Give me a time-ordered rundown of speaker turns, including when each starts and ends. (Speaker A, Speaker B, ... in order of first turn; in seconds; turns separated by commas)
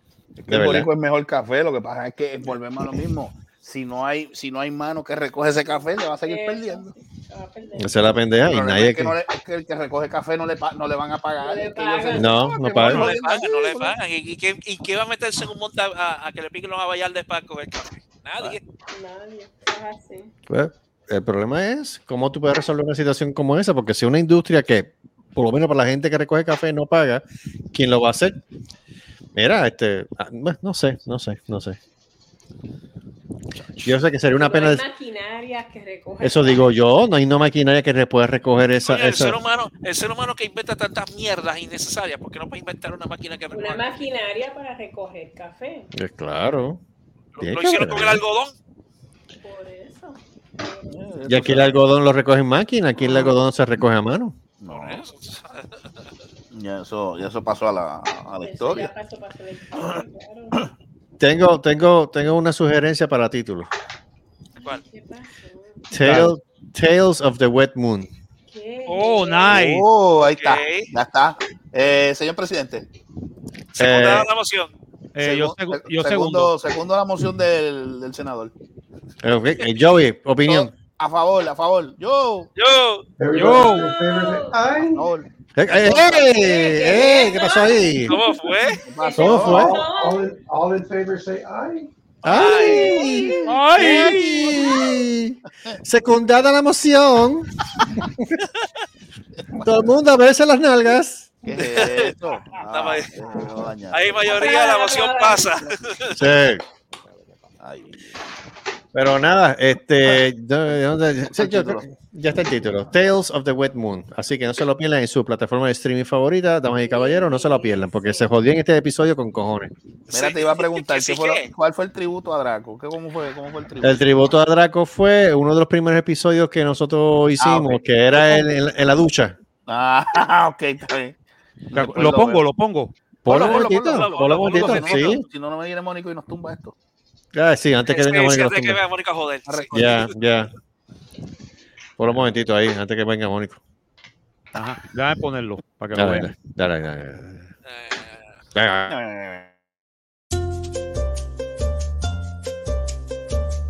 Speaker A: 0.4-6.9, Speaker B: 0.5-0.9, Speaker C: 5.7-8.1, Speaker B: 7.8-9.2, Speaker A: 8.5-13.9, Speaker C: 11.4-12.4, Speaker B: 12.1-13.1, Speaker D: 12.8-18.6, Speaker C: 18.9-20.3, Speaker B: 20.5-28.4, Speaker B: 29.3-31.8, Speaker B: 33.8-34.9, Speaker C: 34.3-36.7, Speaker B: 36.2-39.4, Speaker D: 38.8-44.0, Speaker C: 43.5-45.9, Speaker B: 45.9-46.8, Speaker D: 47.4-48.5, Speaker B: 47.4-48.2, Speaker C: 49.4-51.0, Speaker A: 50.9-51.8, Speaker B: 51.3-54.4, Speaker A: 53.0-53.3, Speaker A: 54.6-55.0, Speaker D: 54.7-55.6, Speaker A: 56.5-58.9, Speaker C: 58.4-60.6, Speaker B: 61.2-63.7, Speaker C: 64.6-65.8, Speaker B: 65.9-68.1, Speaker E: 66.0-66.3, Speaker C: 68.5-69.6, Speaker E: 68.9-69.9, Speaker A: 69.5-72.8, Speaker D: 70.2-70.9, Speaker D: 73.7-74.7, Speaker B: 73.8-74.3, Speaker E: 75.1-76.5, Speaker A: 75.2-78.5, Speaker B: 79.2-80.7, Speaker A: 80.5-82.5, Speaker D: 82.6-83.1, Speaker F: 83.2-85.1, Speaker E: 83.3-83.9, Speaker C: 83.7-84.6, Speaker A: 84.9-85.3, Speaker B: 85.5-88.2, Speaker A: 85.8-86.3, Speaker C: 86.4-87.9, Speaker D: 88.0-88.8, Speaker A: 88.7-89.7, Speaker C: 89.0-90.3, Speaker B: 89.1-89.8, Speaker F: 89.3-91.9, Speaker B: 92.2-97.5, Speaker D: 92.2-93.1, Speaker A: 92.7-94.8, Speaker C: 92.7-93.3, Speaker E: 93.5-94.5, Speaker C: 94.5-94.8, Speaker B: 99.6-101.3, Speaker A: 101.4-104.5, Speaker D: 101.5-103.1, Speaker D: 103.9-106.2, Speaker C: 104.3-105.5, Speaker B: 106.1-106.6, Speaker A: 107.6-108.2, Speaker B: 108.9-119.7, Speaker A: 111.3-111.8, Speaker C: 116.8-118.3, Speaker D: 120.1-121.5, Speaker A: 120.1-124.1, Speaker B: 123.8-129.3, Speaker A: 127.4-128.4, Speaker A: 129.7-131.2, Speaker A: 131.7-132.4, Speaker E: 131.7-132.9, Speaker B: 133.2-135.2, Speaker A: 133.2-136.7, Speaker D: 133.3-135.1, Speaker B: 137.3-138.8, Speaker D: 137.9-140.0, Speaker B: 139.7-140.5, Speaker B: 142.0-143.6, Speaker E: 144.5-146.3, Speaker B: 145.9-147.4, Speaker D: 147.7-148.3, Speaker B: 148.5-148.9, Speaker A: 148.9-149.5